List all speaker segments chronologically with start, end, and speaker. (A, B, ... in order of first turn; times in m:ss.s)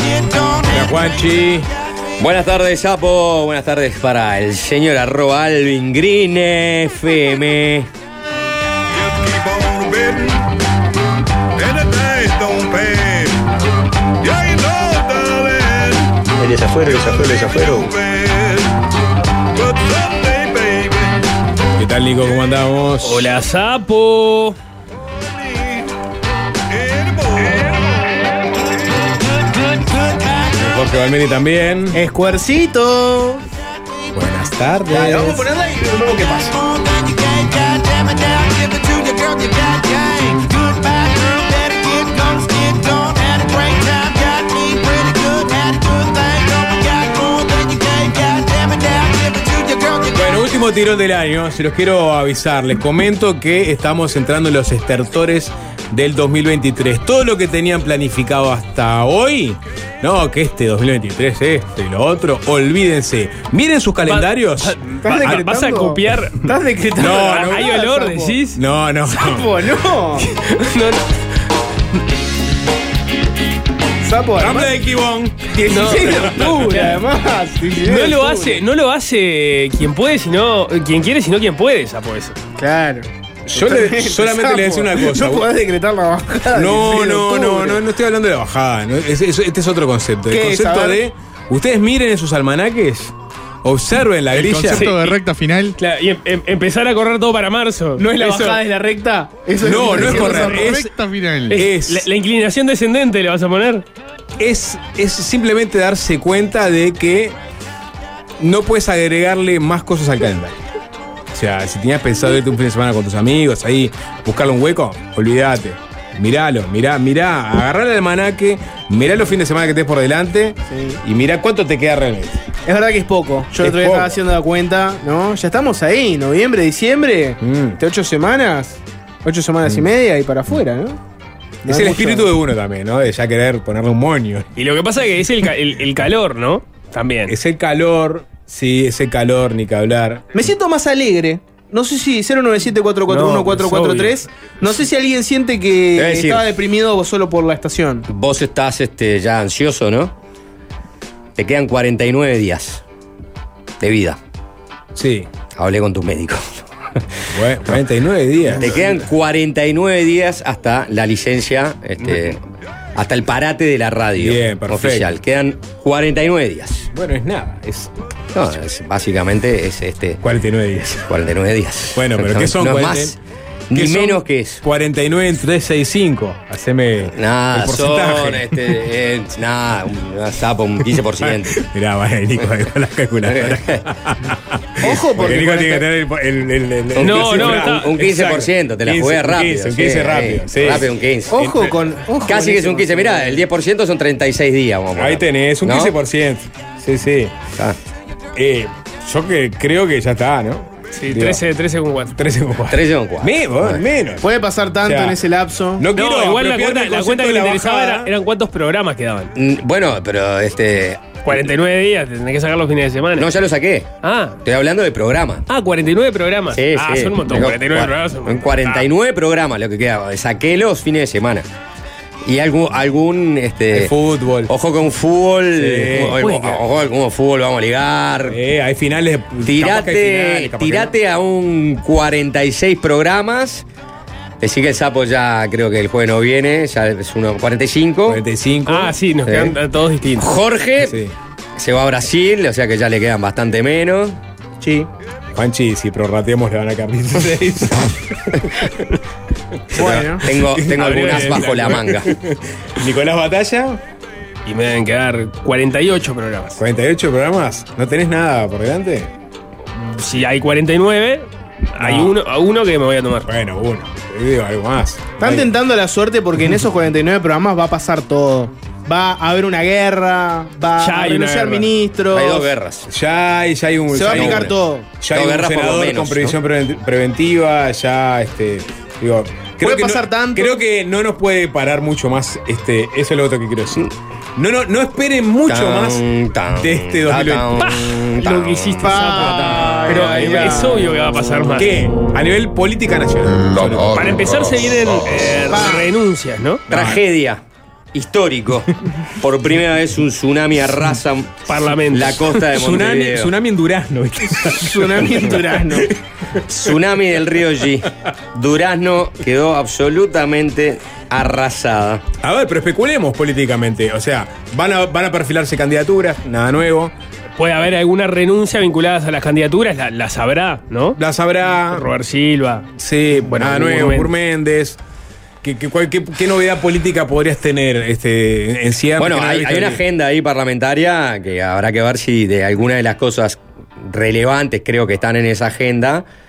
0:00.7-0:01.7 A
0:02.2-0:07.9 B
0:08.9-0:10.4 C
0:11.6-0:13.4 C
0:14.2-0:18.8 C
0:19.6-0:21.2 C
0:21.8-0:23.3 A
0:23.0-0:24.6 D
0:26.7-0:27.8 C
0:30.6-0:32.0 A
0:31.9-0:33.4 E
0:34.1-0:35.5 A
0:34.9-0:36.6 E
0:42.7-0:43.2 E
0:50.1-1:05.5 A
1:04.0-1:08.6 D
1:05.0-1:08.4 E
1:07.0-1:07.8 A
1:08.6-1:09.7 A
1:09.1-1:10.3 E
1:10.5-1:11.0 D
1:14.0-1:14.7 E
1:14.4-1:16.9 A
1:15.7-1:18.6 E
1:15.7-1:17.0 D
1:17.8-1:22.4 D
1:22.6-1:27.8 E
1:23.5-1:25.5 A
1:26.5-1:33.1 A
1:30.3-1:31.0 E
1:33.6-1:34.9 A
1:34.3-1:35.8 F
1:34.7-1:35.2 D
1:35.8-1:38.6 D
1:38.0-1:40.8 E
1:39.6-1:41.0 A
1:39.6-1:41.6 F
1:41.5-1:42.1 A
1:41.5-1:43.8 D
1:44.4-1:47.4 A
1:48.4-1:50.6 A
1:51.3-2:02.4 A
2:00.7-2:01.0 E
2:02.7-2:11.0 E
2:03.6-2:04.1 A
2:07.4-2:07.8 A
2:11.7-2:12.3 E
2:11.7-2:14.5 A
2:14.6-2:17.4 D
2:17.3-2:20.3 A
2:20.3-2:28.1 E
2:23.1-2:24.2 D
2:26.0-2:26.5 B
2:28.1-2:30.1 B
2:31.4-2:32.8 B
2:33.8-2:34.2 B
2:35.0-2:35.3 A
2:35.5-2:37.3 B
2:37.3-2:39.0 A
2:38.6-2:42.4 B
2:43.0-2:46.9 B
2:44.2-2:45.1 A
2:46.9-2:47.9 A
2:48.3-2:50.2 B
2:50.2-2:51.1 A
2:51.1-2:53.2 B
2:51.9-2:53.2 A
2:53.7-2:54.6 B
2:53.7-2:58.8 A
2:57.1-3:01.6 B
3:01.2-3:11.7 A
3:03.2-3:03.8 B
3:04.8-3:05.9 E
3:06.9-3:11.6 B
3:07.0-3:07.9 D
3:11.3-3:13.4 E
3:12.2-3:16.0 B
3:15.0-3:17.3 A
3:18.4-3:21.4 A
3:21.0-3:22.1 D
3:22.1-3:24.3 A
3:22.7-3:23.8 B
3:24.2-3:25.9 E
3:24.8-3:25.2 A
3:25.8-3:28.1 A
3:25.9-3:29.3 D
3:29.4-3:31.4 B
3:31.2-3:33.3 D
3:33.2-3:35.4 B
3:34.0-3:34.4 D
3:35.5-3:38.9 D
3:36.5-3:41.5 B
3:42.2-3:43.9 B
3:43.7-3:44.5 A
3:44.5-3:48.4 B
3:45.6-3:46.2 A
3:46.1-3:46.6 D
3:48.3-3:50.9 A
3:49.5-3:53.6 B
3:54.4-3:58.2 B
3:58.1-3:59.0 A
3:58.7-4:00.3 D
3:59.2-3:59.6 B
4:00.2-4:01.0 B
4:00.8-4:01.1 A
4:01.6-4:04.2 B
4:04.6-4:04.9 E
4:05.4-4:08.2 A
4:09.7-4:13.8 A
4:09.7-4:12.1 B
4:09.7-4:10.2 E
4:10.8-4:11.6 D
4:14.5-4:16.6 D
4:16.6-4:19.1 A
4:19.9-4:23.3 D
4:21.8-4:22.2 A
4:23.3-4:25.5 A
4:25.2-4:32.5 E
4:30.8-4:31.7 D
4:32.1-4:32.9 B
4:32.9-4:46.0 A
4:33.9-4:34.9 E
4:34.1-4:34.5 B
4:35.1-4:36.4 B
4:39.6-4:40.6 E
4:45.5-4:50.6 B
4:46.6-4:47.7 A
4:47.6-4:51.9 D
4:48.2-4:50.2 E
4:49.9-4:50.9 A
4:51.6-4:54.4 A
4:53.7-4:54.5 C
4:53.9-4:56.6 D
4:55.5-4:55.9 E
4:56.7-4:57.0 A
4:56.7-5:03.3 B
5:01.5-5:02.4 D
5:02.4-5:05.8 A
5:04.4-5:05.9 E
5:06.4-5:12.0 B
5:12.2-5:16.9 A
5:17.4-5:21.0 D
5:21.0-5:21.8 A
5:21.7-5:22.7 D
5:22.8-5:24.8 A
5:23.2-5:24.1 D
5:25.4-5:29.8 A
5:29.0-5:36.1 B